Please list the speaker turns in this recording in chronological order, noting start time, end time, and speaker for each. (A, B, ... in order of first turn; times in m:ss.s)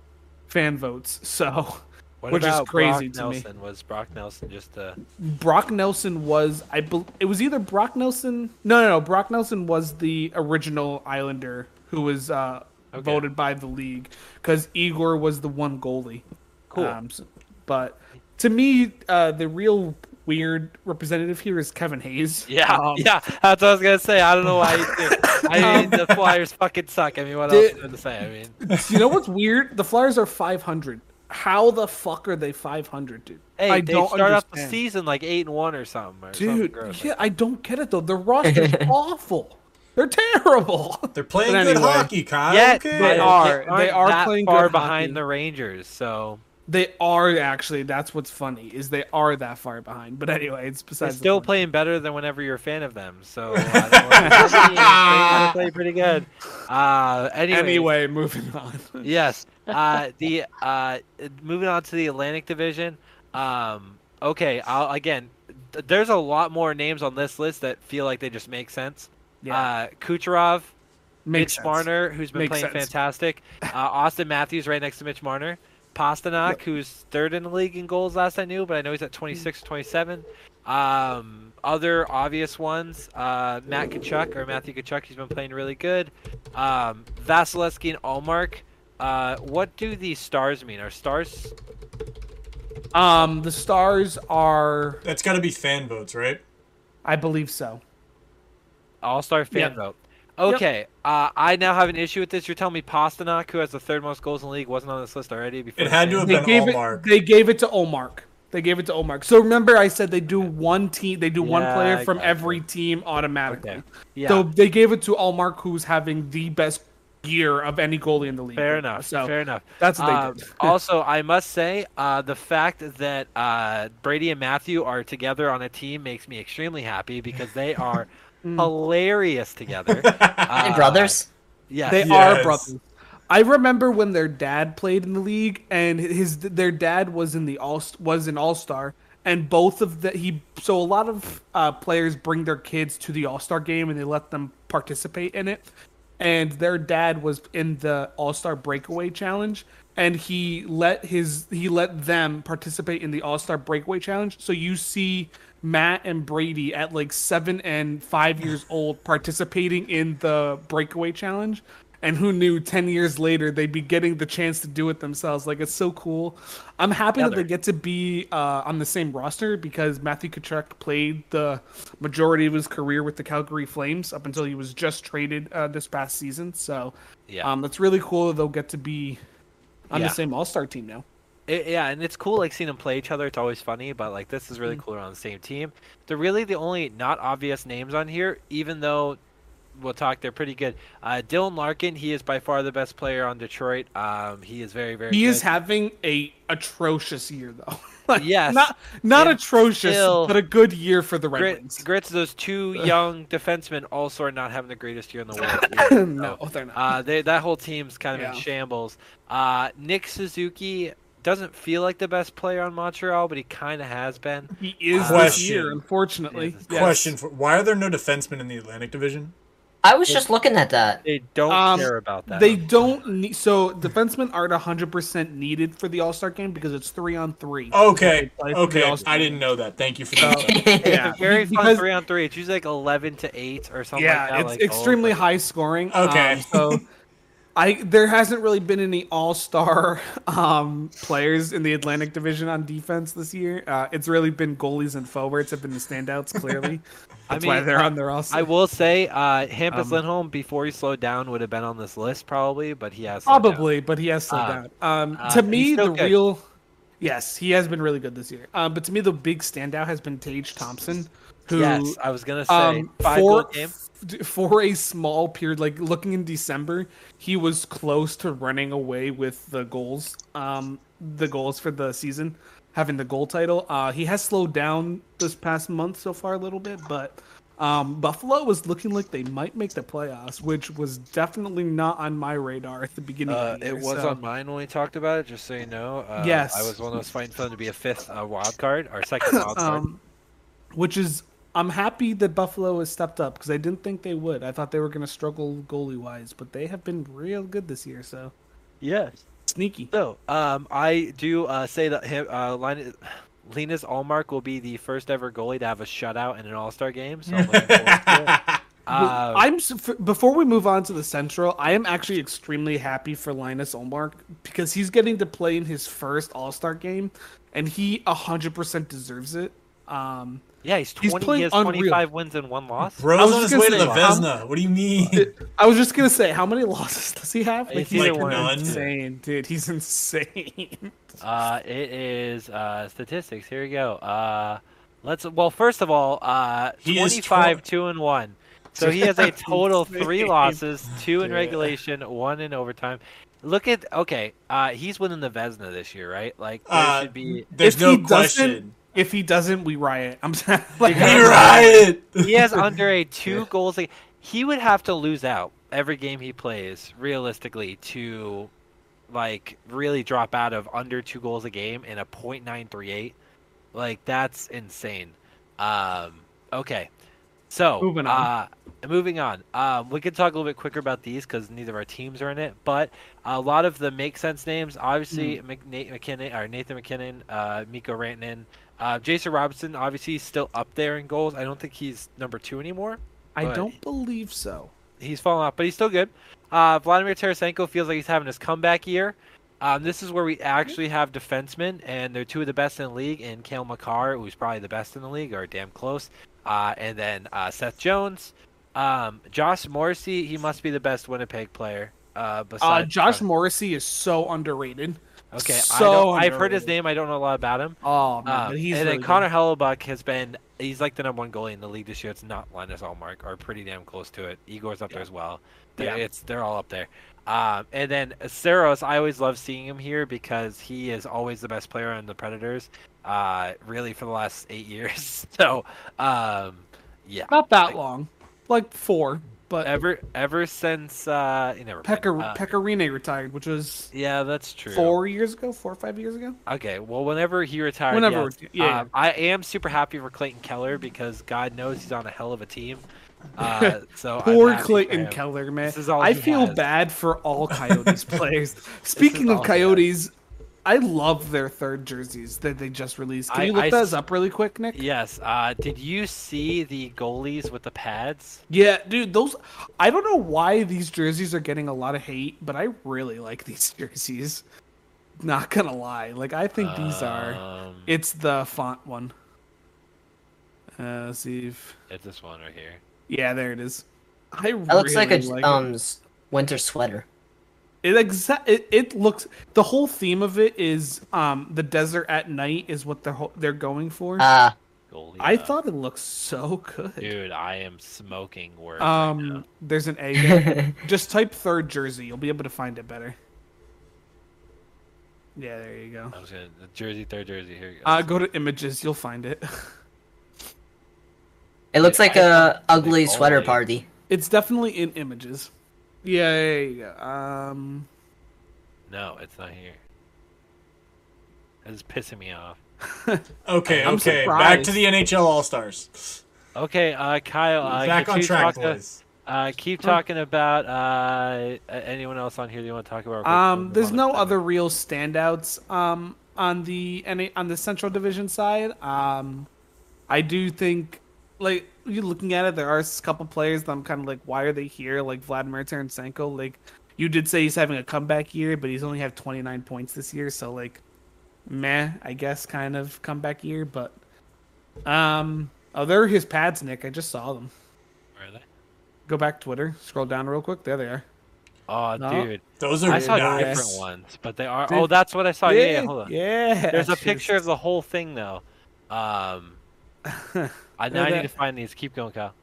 0:00.5-0:03.4 A
0:02.2-0:05.0 B
0:05.2-0:23.1 A
0:12.9-0:13.3 B
0:16.7-0:17.0 B
0:22.5-0:28.6 B
0:25.1-0:26.4 A
0:27.5-0:27.8 A
0:28.6-0:34.8 A
0:33.6-0:37.1 B
0:36.4-0:42.1 A
0:38.4-0:38.9 C
0:41.2-0:43.4 D
0:42.5-0:46.4 B
0:43.0-0:45.2 A
0:46.7-0:51.5 A
0:51.0-0:57.9 B
0:53.5-0:55.5 D
0:54.2-0:55.5 A
0:57.5-0:59.1 A
0:59.0-1:10.7 B
1:09.4-1:09.7 A
1:11.2-1:12.9 A
1:11.3-1:31.5 B
1:32.9-1:35.0 A
1:35.0-1:36.4 D
1:37.0-1:37.8 A
1:39.0-1:46.5 B
1:45.8-1:47.0 D
1:46.2-2:00.7 A
1:51.4-1:52.6 B
1:53.5-1:54.5 B
1:58.6-2:12.2 B
2:08.4-2:08.7 A
2:09.9-2:10.7 D
2:10.6-2:11.3 C
2:11.9-2:25.7 A
2:12.0-2:12.7 D
2:26.2-2:59.2 A
2:47.2-2:47.5 B
2:59.9-3:01.0 A
2:59.9-3:00.2 B
3:01.5-3:09.2 B
3:09.8-3:15.5 B
3:15.1-3:21.8 A
3:18.2-3:20.4 B
3:21.4-3:35.5 B
3:25.4-3:26.9 A
3:28.1-3:28.4 A
3:34.6-3:37.1 A
3:35.0-3:35.8 D
3:36.3-3:37.1 B
3:36.7-3:39.4 D
3:39.8-3:41.0 C
3:41.0-3:42.6 B
3:41.5-3:49.4 A
3:47.7-3:50.6 D
3:50.2-3:51.9 A
3:50.4-3:51.0 C
3:50.8-3:55.3 B
3:54.0-3:56.9 A
3:55.9-3:56.8 D
3:57.6-4:08.5 A
4:07.3-4:07.7 B
4:08.3-4:13.7 B
4:09.7-4:10.0 A
4:13.3-4:16.4 A
4:14.3-4:14.6 B
4:15.2-4:16.2 B
4:17.0-4:22.0 A
4:21.5-4:23.7 B
4:22.5-4:44.2 A
4:43.3-4:49.8 B
4:46.2-4:46.7 A
4:49.5-4:50.0 A
4:50.7-4:58.3 A
4:58.8-4:59.2 B
4:59.5-4:59.9 A
4:59.9-5:09.5 B
5:07.3-5:08.6 D
5:08.9-5:20.4 A
5:20.6-5:23.1 B
5:21.0-5:22.0 A
5:23.0-5:25.3 D
5:23.2-5:24.3 A
5:23.8-5:24.1 B
5:25.0-5:30.9 A
5:27.7-5:28.9 B
5:27.9-5:28.8 D
5:31.2-5:47.5 B
5:36.8-5:37.6 D
5:38.8-5:39.1 D
5:38.8-5:40.6 A
5:41.2-5:41.7 A
5:46.7-5:48.7 D
5:47.6-5:51.8 A
5:50.8-5:58.5 B
5:50.9-5:52.7 D
5:59.1-6:03.2 B
6:03.7-6:06.9 B
6:07.5-6:23.7 B
6:07.8-6:08.3 A
6:15.1-6:15.4 A
6:23.4-6:24.7 A
6:25.0-6:43.2 B
6:42.6-6:46.7 A
6:45.3-7:07.8 B
6:47.8-6:49.3 A
6:55.8-6:56.0 A
7:07.3-7:09.7 A
7:09.6-7:12.5 B
7:11.8-7:13.9 A
7:13.9-7:15.0 B
7:14.7-7:16.4 A
7:16.5-7:22.8 B
7:17.9-7:18.9 A
7:23.4-7:26.6 B
7:23.4-7:30.1 A
7:27.5-7:28.2 D
7:29.0-7:29.9 B
7:30.7-7:34.8 A
7:33.3-7:34.0 B
7:34.7-7:38.4 B
7:38.5-7:44.4 A
7:45.2-7:49.1 A
7:46.6-7:47.9 B
7:50.8-7:51.8 A
7:51.9-7:52.8 B
7:53.1-7:55.7 A
7:54.7-7:57.0 C
7:57.8-8:04.3 A
8:04.2-8:04.5 C
8:04.9-8:05.5 B
8:05.2-8:07.1 A
8:07.0-8:09.4 B
8:08.8-8:13.2 A
8:10.2-8:10.7 C
8:15.4-8:16.2 A
8:16.1-8:18.2 B
8:17.8-8:19.7 A
8:21.7-8:23.8 C
8:21.8-8:23.6 B
8:24.1-8:25.5 A
8:26.0-8:27.9 A
8:28.9-8:29.8 B
8:31.6-8:32.6 B
8:33.0-8:33.2 A
8:33.5-8:36.2 D
8:33.7-8:34.4 B
8:33.8-8:34.8 A
8:36.6-8:44.4 B
8:37.6-8:39.0 D
8:43.2-8:49.5 A
8:50.1-9:00.8 A
9:01.5-9:04.0 A
9:04.8-9:07.5 A
9:08.2-9:08.4 B
9:09.1-9:11.0 A
9:11.7-9:16.1 B
9:12.0-9:12.3 A
9:12.6-9:13.8 D
9:12.9-9:13.8 A
9:15.4-9:17.3 A
9:16.7-9:19.6 B
9:20.1-9:21.3 A
9:20.8-9:22.3 B